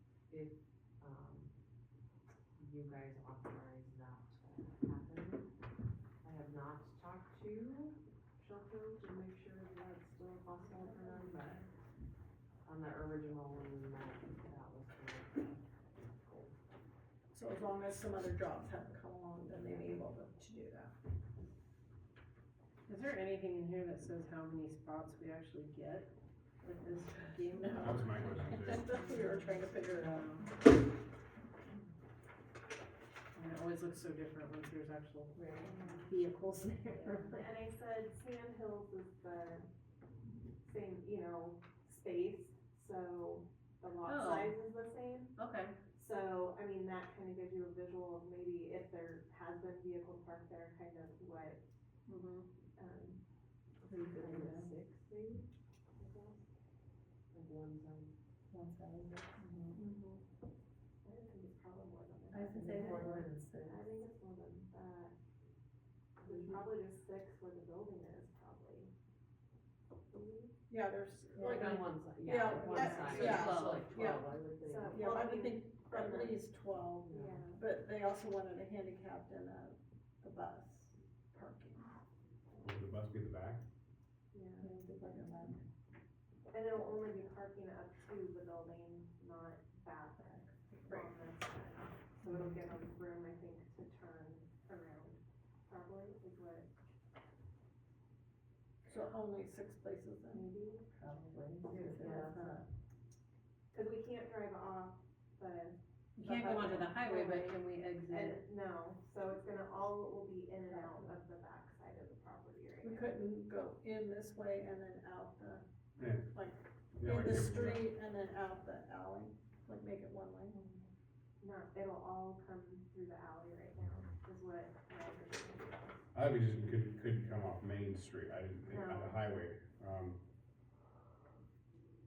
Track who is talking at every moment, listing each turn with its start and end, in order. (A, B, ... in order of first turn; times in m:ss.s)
0:00.3-0:01.5 A
0:02.6-0:05.5 A
0:06.2-0:11.7 A
0:12.6-0:16.6 A
0:17.3-0:21.0 B
0:19.5-0:20.0 A
0:22.9-0:28.6 C
0:27.6-0:30.3 B
0:27.8-0:28.9 D
0:29.9-0:30.5 C
0:33.4-0:35.4 C
0:35.4-0:36.0 A
0:35.7-0:36.0 E
0:36.0-0:37.4 C
0:37.3-0:39.7 E
0:40.6-0:45.3 E
0:44.0-0:44.6 C
0:45.4-0:45.8 C
0:46.0-0:51.6 E
0:52.1-0:52.5 C
0:52.8-0:53.2 E
0:53.8-0:55.5 A
0:54.0-0:54.6 B
0:56.0-0:56.4 E
0:57.3-0:58.1 A
0:58.5-0:59.2 B
0:59.8-1:00.2 E
1:01.0-1:05.2 E
1:02.3-1:03.2 B
1:02.5-1:03.8 A
1:06.2-1:08.9 E
1:06.2-1:06.6 A
1:10.1-1:10.5 E
1:10.7-1:14.3 B
1:11.4-1:15.2 A
1:12.4-1:14.0 C
1:13.1-1:13.3 E
1:14.6-1:16.4 E
1:14.9-1:21.9 B
1:17.0-1:17.5 A
1:17.2-1:17.6 E
1:22.6-1:23.6 D
1:24.3-1:24.7 E
1:24.6-1:25.6 B
1:26.5-1:36.7 E
1:30.8-1:31.2 B
1:32.2-1:32.5 B
1:38.8-1:40.5 B
1:40.3-1:42.6 A
1:41.7-1:42.7 B
1:43.7-1:45.8 E
1:46.2-1:48.4 C
1:46.2-1:46.9 B
1:46.5-1:53.1 E
1:50.7-1:51.1 A
1:52.8-1:55.6 B
1:56.0-1:56.3 D
1:56.3-2:00.6 B
1:57.0-1:57.9 D
2:00.5-2:00.9 E
2:01.4-2:06.0 E
2:06.1-2:10.2 D
2:08.7-2:09.2 E